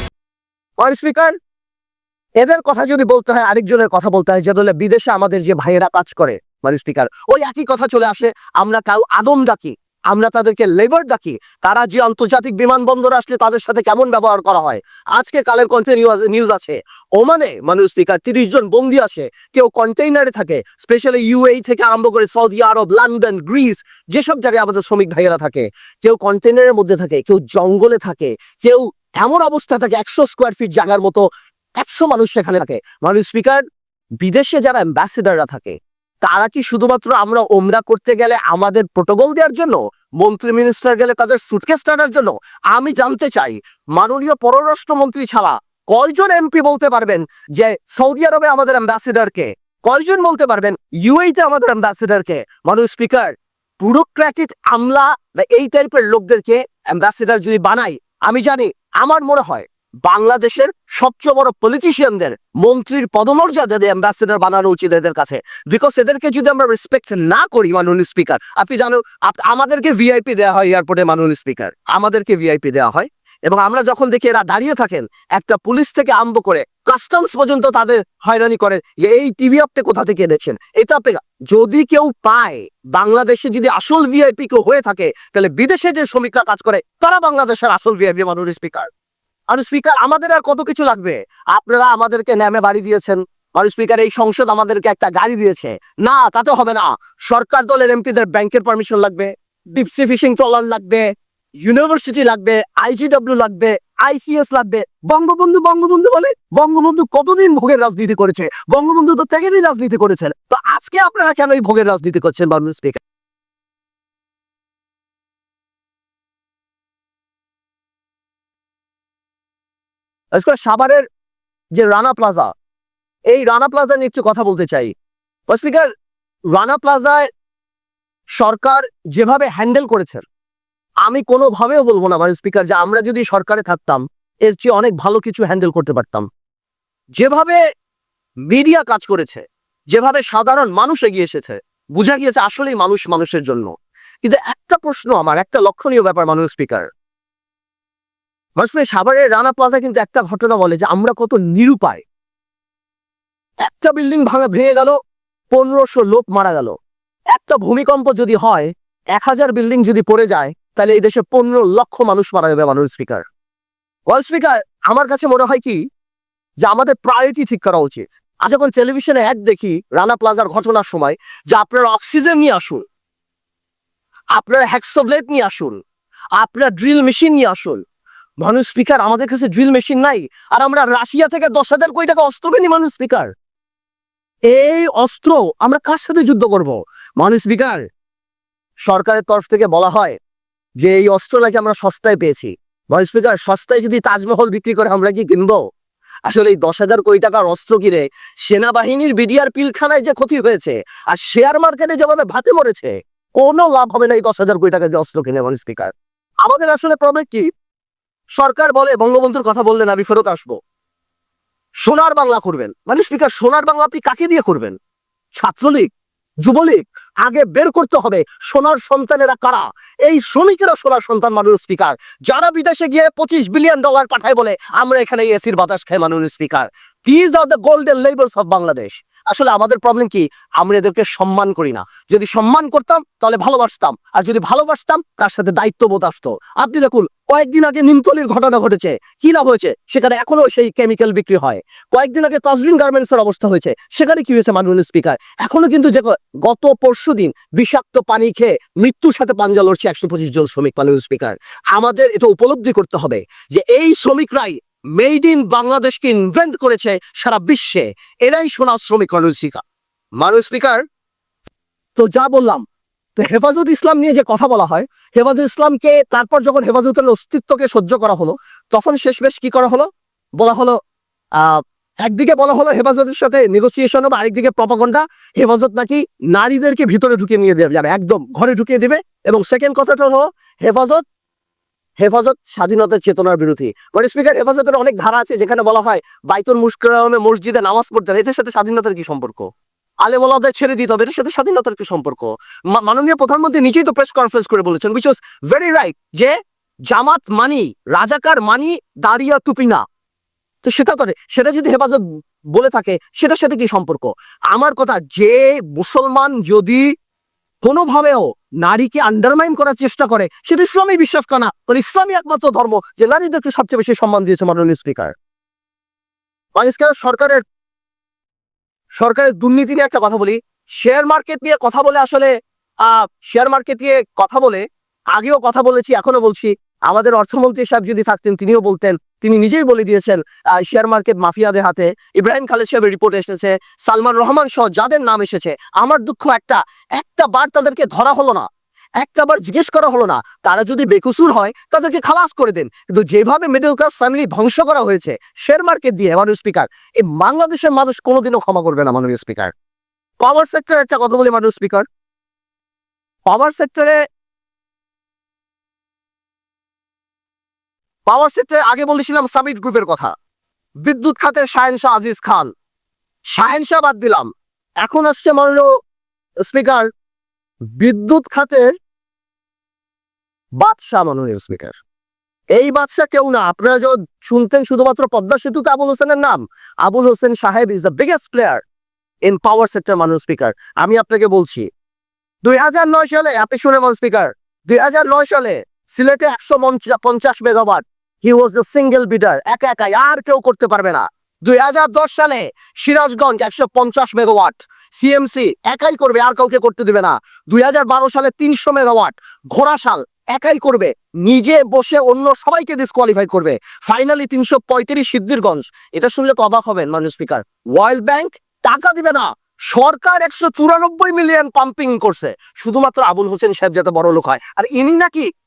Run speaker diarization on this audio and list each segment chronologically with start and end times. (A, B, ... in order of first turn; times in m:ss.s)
0:00.8-0:01.3 A
0:02.4-0:31.2 A
0:31.8-0:33.6 A
0:34.2-1:28.9 A
1:29.5-1:41.1 A
1:41.6-1:53.0 A
2:00.3-2:01.0 A
2:01.8-2:02.5 A
2:03.3-2:04.9 A
2:05.5-2:05.9 A
2:06.5-2:07.3 A
2:08.4-2:10.2 A
2:11.0-2:16.3 A
2:17.2-2:17.6 A
2:18.5-2:23.7 A
2:24.2-2:26.9 A
2:28.6-2:32.0 A
2:33.6-2:35.0 A
2:35.5-2:36.8 A
2:37.3-2:43.2 A
2:44.1-2:45.8 A
2:46.6-2:52.8 A
2:54.4-2:55.8 A
2:56.4-2:57.8 A
2:58.4-3:03.3 A
3:04.5-3:07.8 A
3:08.8-3:10.2 A
3:10.8-3:15.6 A
3:16.3-3:27.5 A
3:28.4-3:30.6 A
3:31.8-3:34.8 A
3:35.4-3:35.9 A
3:36.4-4:19.6 A
4:20.2-4:20.8 A
4:22.0-4:22.6 A
4:23.2-4:30.8 A
4:31.4-4:41.0 A
4:42.0-4:49.5 A
4:50.0-4:56.4 A
4:56.9-4:59.8 A
5:00.6-5:06.9 A
5:07.6-5:15.1 A
5:16.6-5:17.4 A
5:19.0-5:22.3 A
5:22.8-5:24.6 A
5:25.1-5:38.5 A
5:39.0-5:49.5 A
5:50.2-5:51.8 A
5:53.3-5:54.0 A
5:58.1-6:00.1 A
6:00.8-6:02.5 A
6:03.3-6:04.3 A
6:04.8-6:05.6 A
6:06.4-6:06.9 A
6:07.8-6:08.7 A
6:10.6-6:11.8 A
6:12.6-6:18.6 A
6:19.2-6:21.7 A
6:22.4-6:55.3 A